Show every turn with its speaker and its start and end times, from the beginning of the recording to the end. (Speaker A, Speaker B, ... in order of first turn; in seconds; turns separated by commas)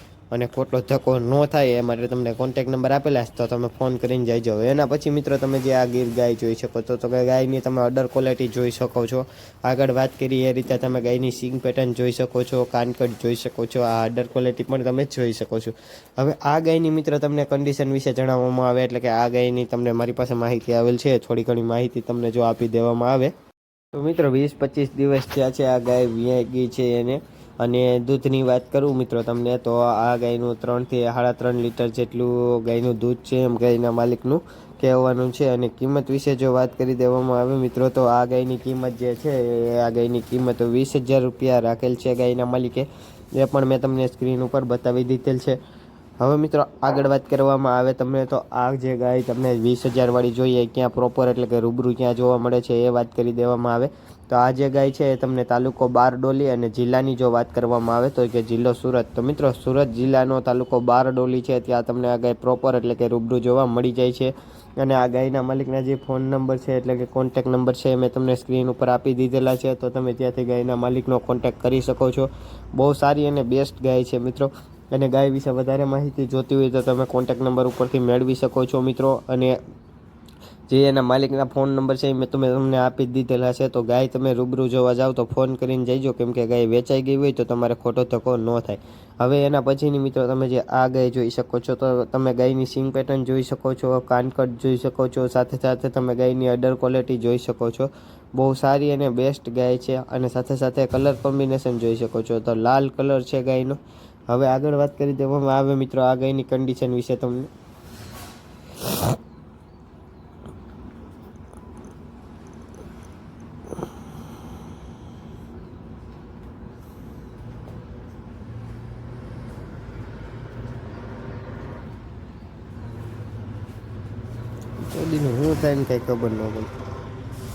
Speaker A: 0.3-23.3, Speaker A: 23.9-45.6, Speaker A: 46.2-79.6, Speaker A: 80.7-107.5, Speaker A: 124.8-126.7